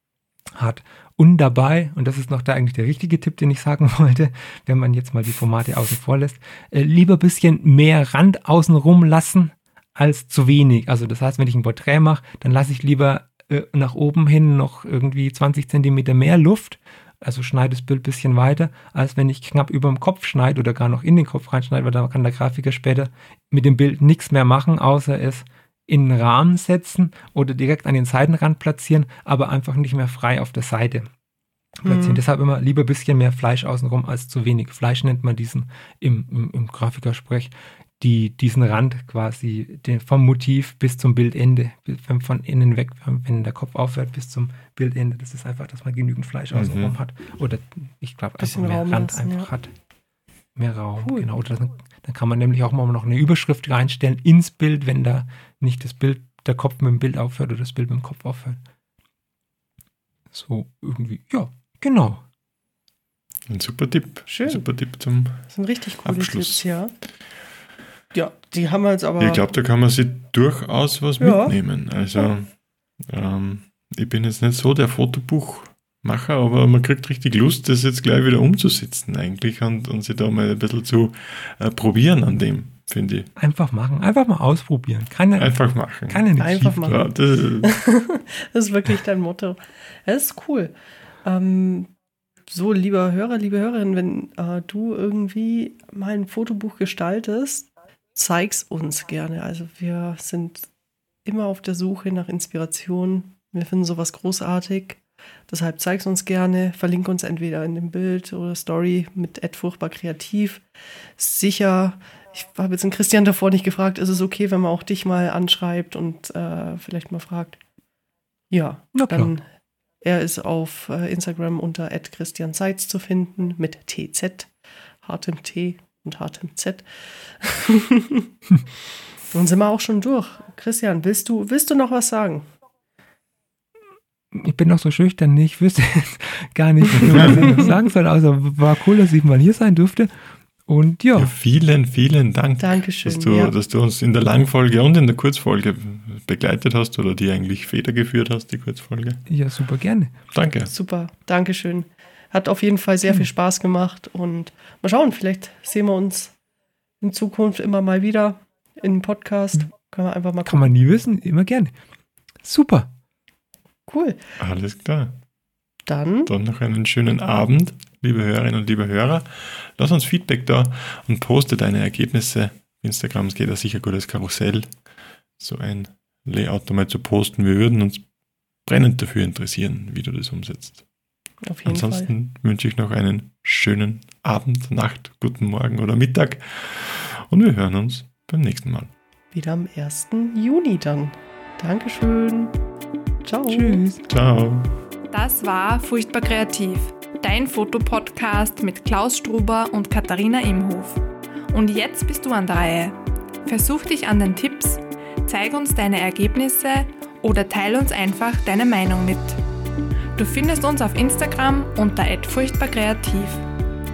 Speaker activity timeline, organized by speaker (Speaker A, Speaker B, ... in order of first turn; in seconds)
Speaker A: 0.6-31.1, 31.8-49.7, 50.5-58.6, 60.3-62.2, 83.4-87.1, 118.9-119.3, 134.3-140.1, 140.7-141.3, 149.3-150.1, 160.4-161.7, 162.4-162.9, 193.5-194.0
Speaker B: 31.8-32.2, 48.4-49.5, 64.3-64.6, 65.5-66.9, 68.1-69.4, 71.2-71.5, 86.3-90.7, 91.2-91.9, 92.5-100.7, 101.2-110.6, 111.2-117.6, 118.5-119.4, 120.0-124.5, 125.0-128.3, 129.3-132.4, 137.2-137.7, 142.6-143.5, 150.7-156.3, 157.0-160.8, 163.9-164.2, 165.8-166.3, 181.4-182.1, 189.3-192.6, 193.2-193.8
Speaker C: 46.5-46.9, 63.5-65.4, 66.0-66.6, 69.2-72.5, 73.1-83.3, 85.4-86.2, 86.8-87.8, 141.2-149.2, 150.3-150.7, 164.4-165.2, 166.2-174.7, 175.4-178.0, 178.6-180.8, 181.6-188.9, 194.1-194.7
Speaker D: 195.1-209.4, 210.2-213.4